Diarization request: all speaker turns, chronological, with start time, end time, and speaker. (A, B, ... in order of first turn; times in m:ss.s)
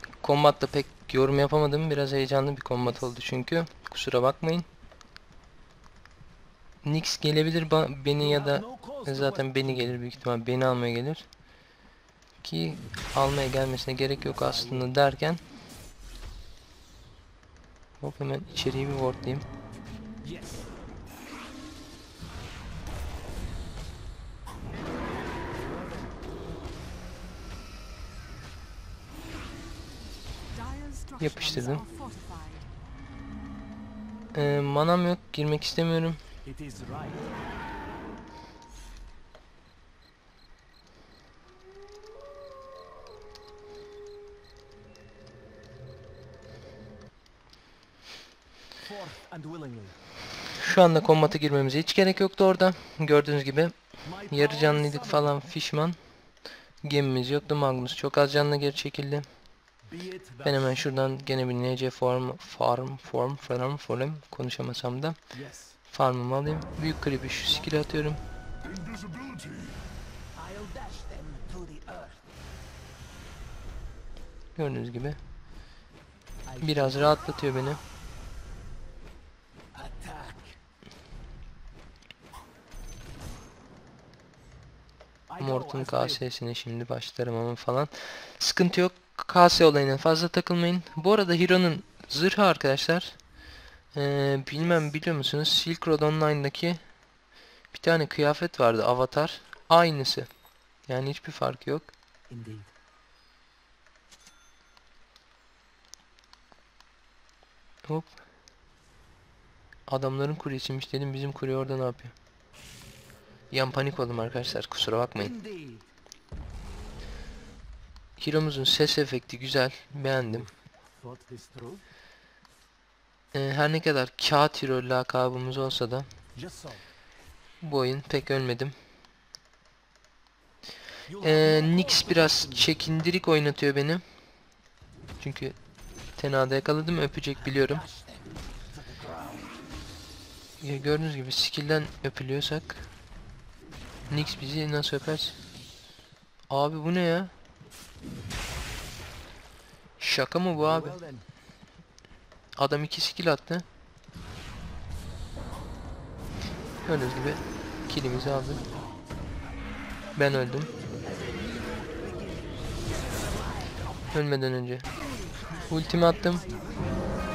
0:00.2-0:04.7 A
0:06.8-0:11.2 A
0:08.2-0:09.9 B
0:12.4-0:15.4 A
0:14.2-0:14.9 B
0:18.0-0:19.4 A
0:20.2-0:20.7 B
0:25.4-0:26.2 B
0:30.5-0:32.7 C
0:31.2-0:31.8 A
0:34.3-0:36.2 A
0:36.4-0:37.3 B
0:48.8-0:50.0 B
0:50.6-0:53.8 A
0:54.0-0:55.5 B
0:54.3-0:56.0 A
0:56.8-0:59.2 A
0:59.9-1:00.8 B
1:00.4-1:05.2 A
1:05.3-1:05.8 B
1:05.9-1:08.2 A
1:07.4-1:08.2 B
1:10.4-1:12.3 B
1:14.6-1:15.2 A
1:16.4-1:17.6 B
1:16.6-1:17.8 A
1:19.7-1:20.6 B
1:25.3-1:26.2 B
1:25.4-1:33.2 A
1:33.9-1:36.8 A
1:37.7-1:40.3 A
1:40.9-1:41.9 A
1:42.3-1:42.7 B
1:47.8-1:48.1 A
1:49.9-1:52.1 A
1:53.5-1:55.3 A
1:55.1-1:55.9 B
1:58.2-2:00.5 A
2:00.2-2:01.8 B
2:03.3-2:06.1 A
2:06.3-2:06.8 B
2:07.6-2:08.7 A
2:11.1-2:12.8 B
2:11.2-2:14.0 A
2:15.2-2:15.6 A
2:16.2-2:17.8 A
2:17.3-2:19.6 B
2:20.6-2:22.9 A
2:24.1-2:25.4 A
2:26.5-2:27.3 A
2:30.0-2:31.0 A
2:30.5-2:31.2 B
2:32.6-2:33.6 A
2:36.8-2:38.6 A
2:38.1-2:39.2 B
2:40.1-2:40.7 A
2:40.7-2:44.1 B
2:44.1-2:44.9 A
2:44.9-2:47.1 B
2:45.7-2:46.5 A